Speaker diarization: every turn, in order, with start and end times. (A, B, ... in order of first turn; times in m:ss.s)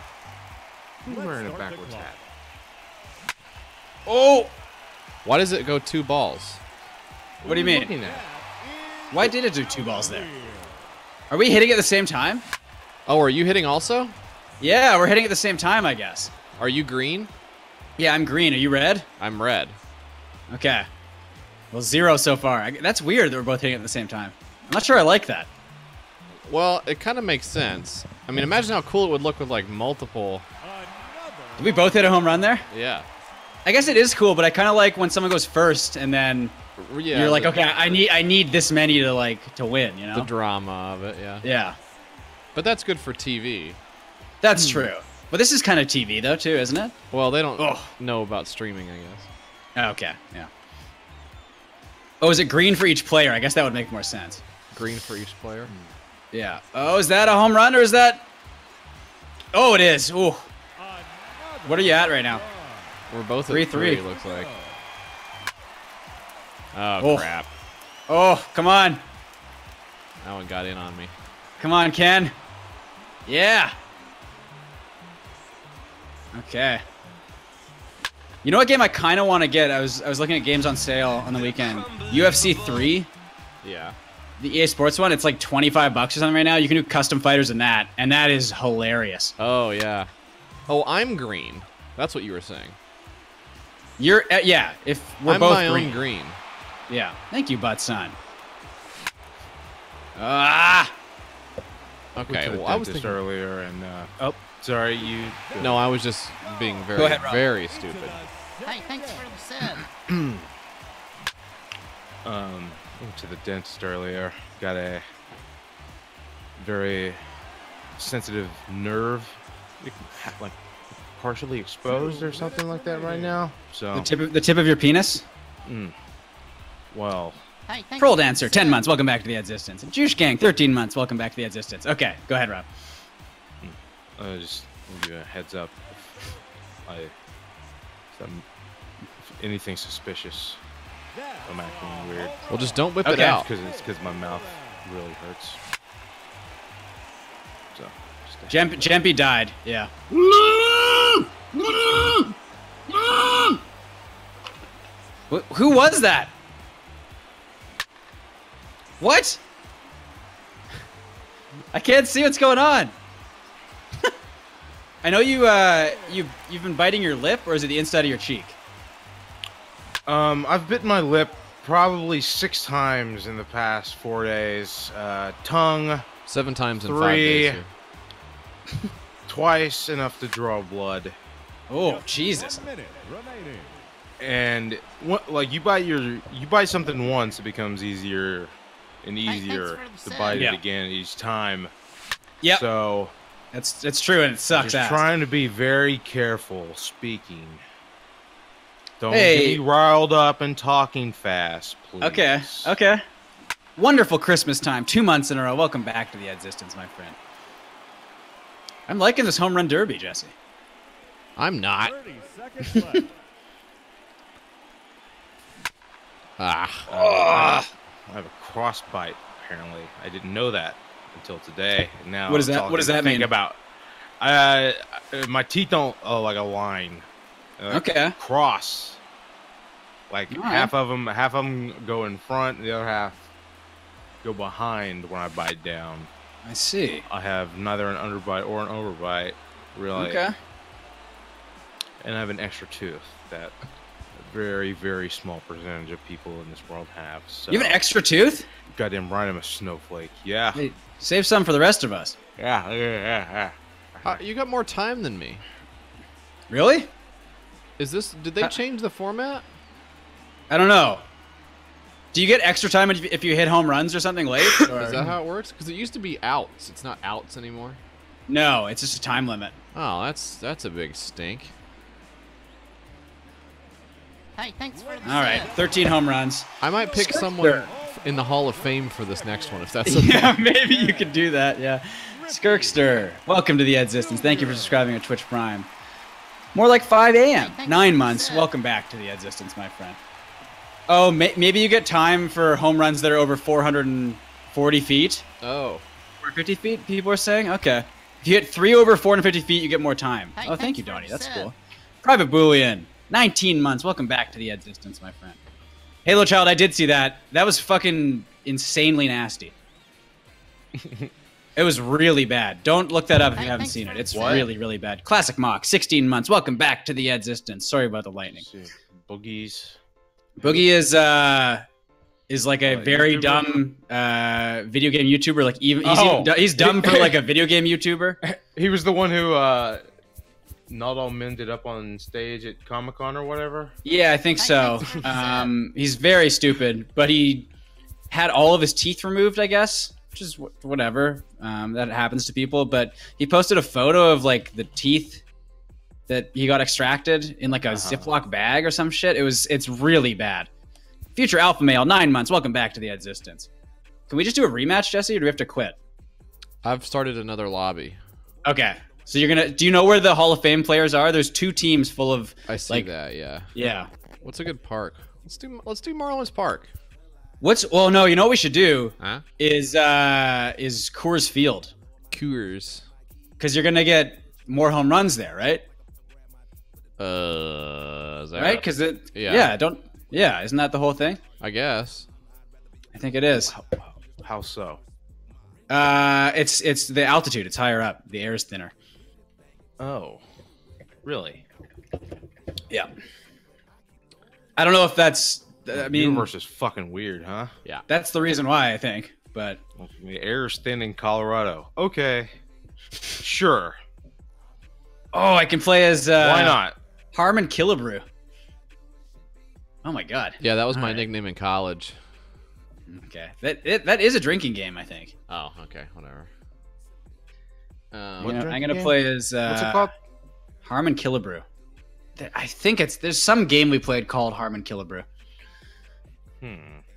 0:01.0-0:02.2 A
0:04.1-0:04.5 B
0:05.2-0:06.6 C
0:07.4-0:08.3 A
0:07.4-0:08.0 B
0:09.1-0:10.3 B
0:11.3-0:12.4 B
0:13.1-0:14.2 C
0:14.6-0:16.3 B
0:16.6-0:17.3 C
0:18.0-0:19.1 B
0:19.2-0:19.8 C
0:20.5-0:20.9 B
0:21.7-0:25.5 B
0:26.5-0:30.5 C
0:31.6-0:32.7 B
0:32.7-0:33.1 C
0:33.6-0:36.6 B
0:36.8-0:38.0 C
0:37.1-0:40.3 B
0:40.1-0:41.5 C
0:41.4-0:41.8 B
0:42.6-0:43.8 C
0:44.4-0:46.9 B
0:47.1-0:49.3 C
0:47.6-0:47.9 B
0:49.8-0:50.5 B
0:52.2-0:54.4 B
0:54.7-0:55.7 C
0:56.3-0:58.3 B
0:59.5-1:00.5 B
1:01.6-1:02.4 B
1:03.1-1:04.5 C
1:03.5-1:04.0 B
1:06.7-1:07.5 C
1:07.0-1:07.3 B
1:08.1-1:09.0 B
1:10.2-1:11.1 C
1:11.6-1:12.4 B
1:13.3-1:13.8 B
1:16.3-1:16.8 B
1:18.4-1:23.1 B
1:23.6-1:24.0 C
1:24.4-1:29.3 B
1:29.4-1:30.1 C
1:30.7-1:32.8 C
1:34.0-1:36.0 B
1:35.3-1:36.4 C
1:36.9-1:38.2 B
1:40.2-1:40.9 B
1:42.2-1:43.2 C
1:42.3-1:45.8 A
1:45.6-1:48.2 C
1:47.0-1:47.4 B
1:48.6-1:49.8 D
1:50.1-1:50.5 A
1:52.2-1:55.1 A
1:56.6-1:57.2 A
1:58.0-2:00.6 A
2:01.2-2:04.1 A
2:03.9-2:05.2 B
2:05.6-2:06.0 A
2:06.9-2:07.4 A
2:07.7-2:08.9 D
2:08.0-2:12.7 B
2:13.6-2:16.1 A
2:16.9-2:17.2 A
2:18.1-2:18.5 A
2:19.2-2:20.6 A
2:21.4-2:22.5 A
2:22.5-2:23.5 C
2:23.0-2:23.4 B
2:23.2-2:25.6 A
2:27.7-2:28.9 A
2:28.5-2:29.9 B
2:30.1-2:30.8 A
2:30.8-2:32.3 B
2:32.9-2:33.6 B
2:35.3-2:36.3 B
2:39.0-2:39.4 B
2:41.7-2:43.0 B
2:45.0-2:48.6 B
2:50.1-2:56.1 A
2:56.3-2:57.7 C
2:56.9-2:57.6 A
2:59.3-3:01.2 A
3:01.7-3:02.7 B
3:04.2-3:11.7 A
3:09.3-3:10.6 D
3:10.3-3:10.6 B
3:12.5-3:13.2 A
3:13.5-3:15.0 B
3:14.5-3:17.6 A
3:19.0-3:22.7 A
3:19.1-3:19.6 B
3:22.0-3:23.0 B
3:23.8-3:27.2 B
3:28.9-3:30.3 B
3:31.4-3:32.0 C
3:32.7-3:33.0 B
3:36.4-3:36.9 C
3:36.9-3:43.6 A
3:36.9-3:37.7 B
3:42.3-3:43.3 B
3:44.2-3:47.1 A
3:47.6-3:49.0 A
3:47.7-3:48.2 B
3:50.1-3:53.2 A
3:50.3-3:50.7 B
3:54.2-3:56.1 A
3:56.5-3:57.1 B
3:57.0-4:00.3 A
4:00.0-4:00.4 B
4:02.0-4:03.6 A
4:04.1-4:07.8 A
4:07.5-4:08.5 B
4:08.7-4:10.6 A
4:10.6-4:12.2 B
4:12.4-4:14.2 A
4:14.0-4:15.4 C
4:16.5-4:16.9 B
4:17.8-4:19.4 C
4:20.5-4:21.0 B
4:22.1-4:25.1 B
4:24.7-4:27.8 C
4:28.3-4:29.6 B
4:29.7-4:31.5 C
4:34.4-4:35.7 D
4:35.0-4:37.7 B
4:36.6-4:40.5 C
4:39.8-4:45.7 B
4:46.6-4:50.0 B
4:47.4-4:48.5 D
4:50.9-4:55.2 B
4:55.4-4:55.8 C
4:56.2-5:05.4 B
5:00.4-5:01.5 D
5:06.0-5:09.5 B
5:10.8-5:11.1 A
5:11.6-5:18.4 B
5:13.3-5:14.5 D
5:14.1-5:14.5 A
5:18.3-5:19.8 A
5:20.4-5:21.6 B
5:22.3-5:28.2 B
5:22.7-5:23.6 A
5:25.8-5:27.2 A
5:28.2-5:29.8 A
5:30.7-5:33.8 A
5:33.8-5:37.5 B
5:34.4-5:35.6 D
5:38.1-5:45.2 B
5:46.1-5:50.5 B
5:47.7-5:48.1 A
5:51.2-5:53.5 B
5:54.1-5:55.8 B
5:56.6-5:58.0 C
5:58.4-6:02.9 B
6:02.5-6:03.5 C
6:03.6-6:03.9 B
6:04.2-6:06.7 C
6:07.4-6:11.7 B
6:09.0-6:09.2 C
6:12.1-6:12.9 C
6:13.4-6:15.7 B
6:17.0-6:19.6 C
6:18.4-6:21.2 B
6:21.4-6:22.1 C
6:22.9-6:23.5 B
6:23.5-6:24.8 A
6:25.7-6:28.7 B
6:29.8-6:30.2 A
6:31.0-6:31.4 A
6:34.6-6:36.3 B
6:35.7-6:37.5 A
6:37.9-6:39.6 B
6:39.8-6:42.3 A
6:43.2-6:43.8 A
6:45.1-6:46.6 B
6:46.2-6:46.8 A
6:47.1-6:48.1 B
6:49.8-6:51.0 B
6:50.4-6:52.0 C
6:52.9-6:55.1 B
6:55.3-6:56.3 C
6:57.9-6:58.4 C
6:58.2-6:59.9 A
6:58.2-6:59.9 B
7:00.6-7:01.4 B
7:02.2-7:05.1 B
7:06.4-7:06.8 A